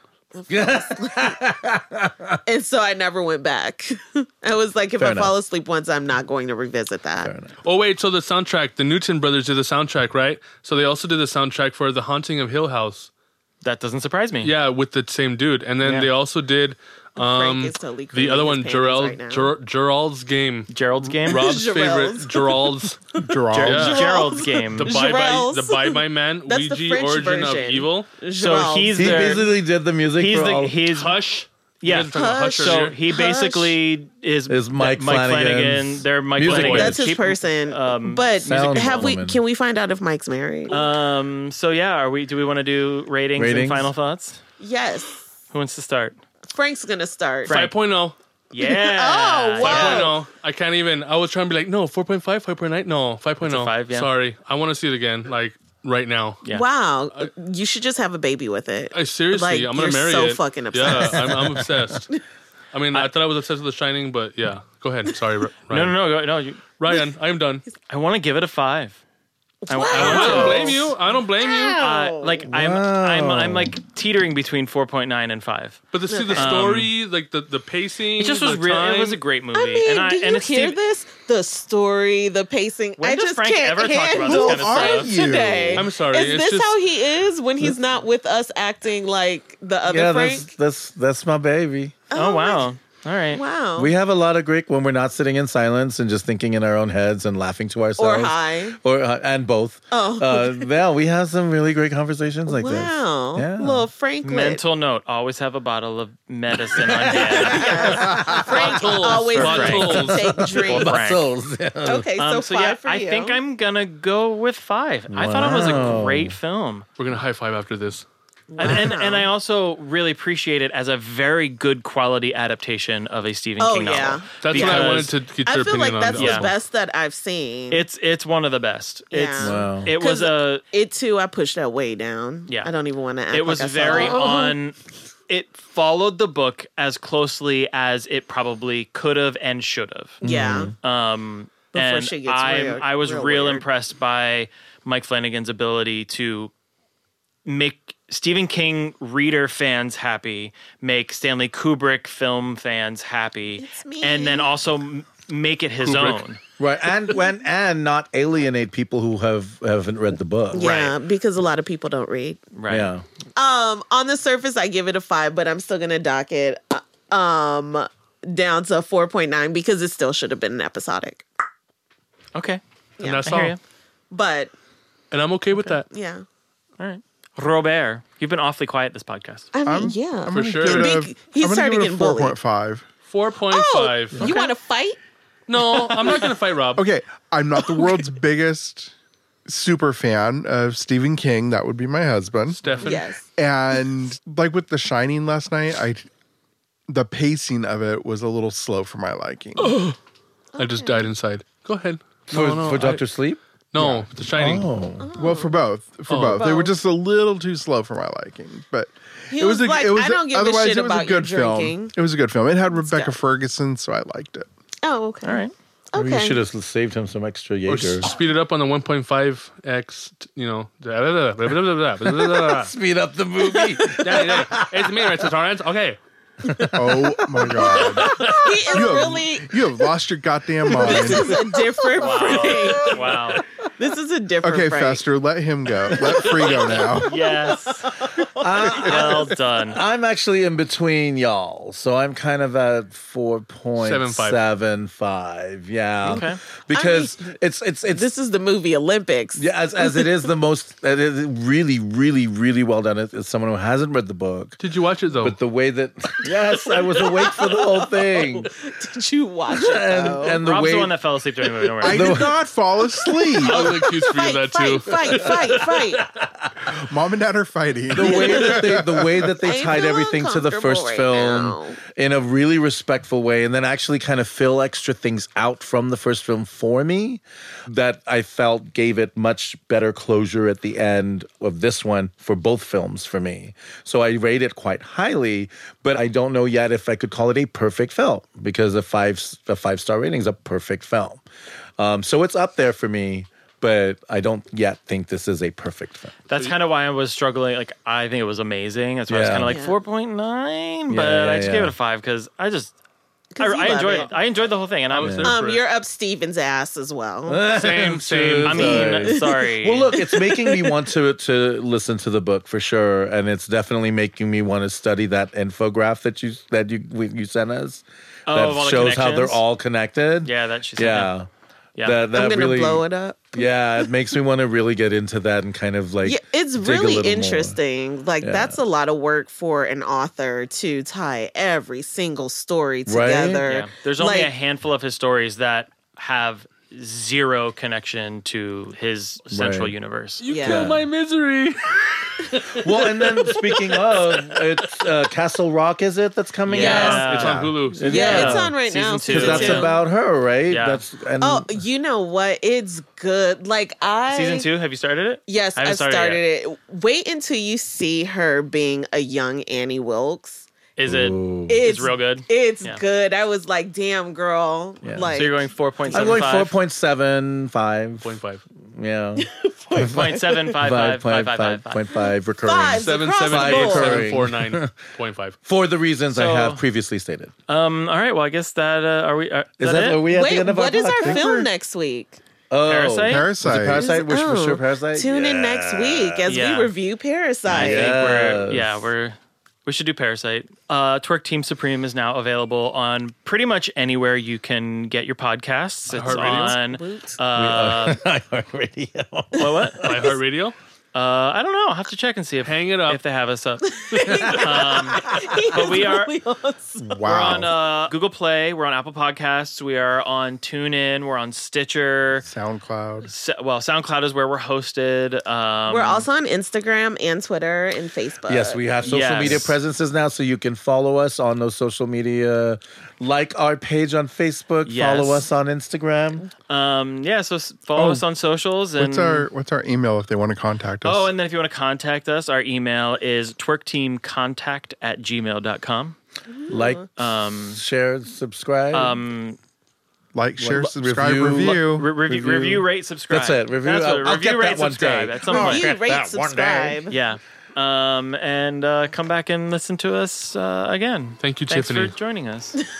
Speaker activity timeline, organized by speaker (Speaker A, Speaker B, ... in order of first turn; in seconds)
Speaker A: 0.3-1.4, 2.5-7.3, 17.2-19.5, 21.2-29.4, 32.1-33.8, 36.5-40.8, 44.6-45.2, 46.5-47.5, 48.6-50.1, 56.5-62.2, 69.6-72.5, 76.1-76.7, 79.5-90.5, 92.1-92.7, 93.3-93.9, 98.0-98.8, 99.9-100.7, 102.5-104.6, 107.1-111.0, 111.8-113.4, 118.5-119.3, 123.6-127.8, 129.1-134.6, 140.2-140.7, 141.7-143.6, 153.6-154.6, 160.5-162.4, 163.3-171.2, 173.0-173.2, 174.1-174.5, 175.8-176.2, 179.5-182.3, 183.5-185.0, 186.0-186.3, 192.8-193.2, 200.6-201.1, 205.0-205.6, 206.3-206.7, 209.3-211.9, 212.7-213.1, 214.8-216.4, 223.4-224.4, 227.7-229.8, 230.7-233.1, 233.8-235.0, 236.4-236.7, 238.2-239.1, 246.1-247.2, 247.9-250.2, 256.2-260.4, 263.4-266.0, 268.0-268.7, 269.4-271.8, 299.5-299.8, 303.3-304.1, 305.2-307.4, 309.9-310.8, 322.1-323.6, 326.0-334.3, 340.3-340.7, 346.5-347.1, 347.8-349.8, 351.2-354.5, 355.3-360.4, 361.5-366.3, 369.2-370.5, 371.9-374.1, 380.1-382.2, 383.8-387.9, 396.0-397.2, 403.8-407.4, 415.7-419.3, 436.3-436.8, 445.3-446.9
Speaker B: 0.5-2.4, 5.0-5.3, 7.2-7.5, 28.9-30.8, 34.5-37.1, 38.4-39.4, 43.4-43.9, 72.5-73.8, 89.8-92.1, 93.8-103.9, 106.7-112.1, 115.1-116.3, 129.4-129.9, 133.8-134.1, 140.2-140.7, 156.6-160.8, 162.7-163.0, 202.3-203.4, 204.3-205.1, 215.9-218.1, 222.0-225.0, 226.4-228.1, 232.2-232.9, 235.9-236.7, 238.0-248.1, 249.3-254.6, 255.1-258.5, 259.5-260.9, 261.8-262.3, 265.1-266.7, 267.9-291.2, 291.8-296.1, 299.1-299.6, 300.9-301.7, 305.0-305.4, 307.3-321.3, 321.8-327.6, 328.2-328.6, 332.9-333.4, 339.3-339.7, 340.4-340.8, 342.4-348.5, 349.1-351.4, 360.9-361.6, 364.8-365.1, 365.9-368.1, 368.7-374.8, 375.4-377.3, 379.6-381.5, 382.5-386.2, 387.5-388.8, 397.3-399.8, 404.0-404.5, 418.3-426.2, 436.5-436.9, 437.5-439.0, 440.4-446.8
Speaker C: 7.6-13.1, 14.4-20.7, 21.2-24.0, 24.8-28.1, 30.9-33.0, 36.4-37.0, 47.5-48.1, 49.6-56.4, 58.9-62.1, 62.7-66.0, 66.8-67.6, 69.9-71.8, 75.9-79.2, 85.7-86.8, 108.2-110.3, 117.0-118.0, 124.4-126.5, 155.8-156.2, 173.0-173.5, 175.1-175.8, 180.3-180.9, 183.1-184.4, 185.5-186.8, 192.5-193.1, 199.6-200.0, 200.6-203.0, 203.7-204.7, 206.1-206.5, 217.7-222.7, 224.0-226.0, 228.0-228.5, 243.8-244.4, 254.6-255.3, 263.4-266.0, 304.9-305.6, 307.5-308.9, 340.2-344.8, 346.6-348.1, 368.0-368.4, 372.7-375.4, 395.9-396.6, 399.8-400.6, 402.4-403.0, 451.2-451.9
Speaker D: 13.6-14.5, 20.7-21.5, 23.7-24.9, 28.3-29.5, 30.1-31.2, 31.8-39.2, 40.7-44.4, 45.5-46.2, 47.4-47.7, 48.5-50.1, 53.4-54.1, 65.7-66.6, 67.9-69.0, 69.7-70.9, 71.8-75.8, 76.3-76.9, 78.2-80.8, 83.0-85.1, 92.1-93.4, 104.2-108.1, 109.3-110.1, 110.6-111.2, 112.2-116.8, 118.6-125.1, 126.1-126.5, 127.7-130.6, 133.3-134.8, 135.3-140.2, 140.8-146.5, 147.4-156.4, 160.5-160.9, 162.5-162.9, 172.3-172.6, 173.2-173.6, 176.8-179.5, 215.2-215.5, 232.0-233.4, 236.9-237.8, 238.7-239.8, 246.0-246.4, 260.4-262.2, 296.3-302.7, 303.4-305.2, 308.4-310.0, 318.3-319.4, 320.2-321.1, 333.4-340.2, 346.5-349.7, 350.5-350.8, 354.1-356.2, 360.8-362.8, 365.1-366.6, 369.8-371.8, 376.1-376.6, 377.5-380.0, 382.6-383.2, 386.2-386.7, 387.4-398.0, 399.3-400.1, 400.9-406.2, 407.0-412.2, 413.0-416.1, 418.8-419.6, 424.6-425.3, 426.5-429.3, 430.8-435.9, 436.9-437.6, 438.7-439.4, 441.4-445.7, 446.9-452.6
Speaker E: 23.2-24.0, 84.1-85.8, 179.7-182.8, 186.8-188.9, 189.4-192.6, 193.3-196.0, 196.9-199.8, 203.8-204.1, 205.2-214.5, 226.7-231.6, 234.4-237.2, 238.6-239.2, 261.8-263.7, 266.9-269.3, 383.1-383.9, 406.8-407.5, 412.2-413.1, 427.7-428.0, 428.8-431.1, 440.1-441.9